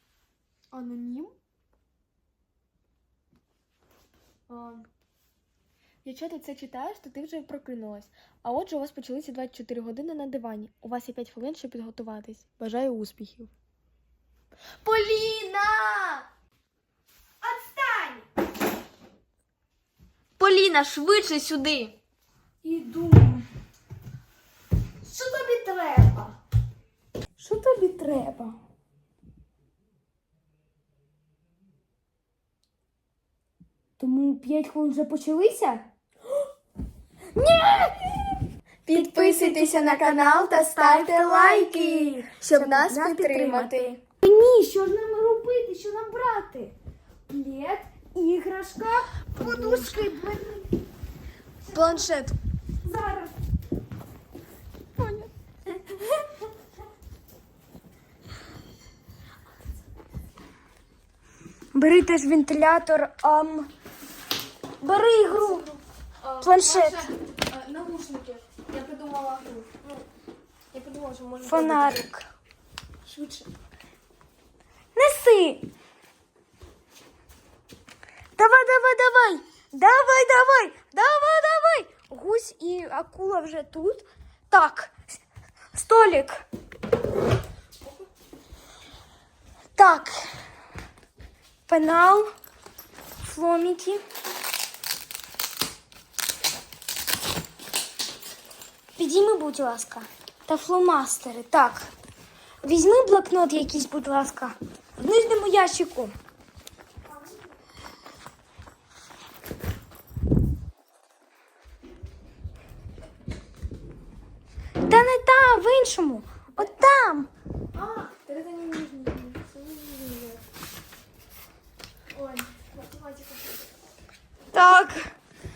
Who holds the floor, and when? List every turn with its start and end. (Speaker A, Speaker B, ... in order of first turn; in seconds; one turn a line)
Speaker A: 0.7-1.4
Speaker A: 4.5-4.9
Speaker A: 6.0-13.5
Speaker A: 14.8-16.3
Speaker B: 17.4-18.2
Speaker A: 20.4-22.0
Speaker B: 22.6-23.4
Speaker B: 25.0-26.4
Speaker B: 27.4-28.6
Speaker B: 34.0-35.9
Speaker B: 37.4-38.4
Speaker A: 38.9-44.0
Speaker B: 38.9-46.7
Speaker B: 47.3-50.7
Speaker A: 49.3-50.0
Speaker B: 51.6-52.1
Speaker A: 51.7-52.4
Speaker B: 52.8-53.3
Speaker A: 55.0-55.3
Speaker B: 61.7-63.7
Speaker B: 64.8-65.7
Speaker A: 65.2-70.0
Speaker B: 66.4-67.1
Speaker A: 70.7-72.0
Speaker B: 71.4-72.3
Speaker A: 73.0-73.5
Speaker B: 75.0-75.7
Speaker B: 78.4-84.9
Speaker B: 85.7-86.4
Speaker B: 89.8-90.4
Speaker B: 91.7-92.3
Speaker B: 93.2-94.0
Speaker B: 99.0-101.9
Speaker B: 102.6-106.2
Speaker B: 114.8-117.3
Speaker A: 117.7-120.4
Speaker A: 122.1-123.7
Speaker B: 124.5-125.1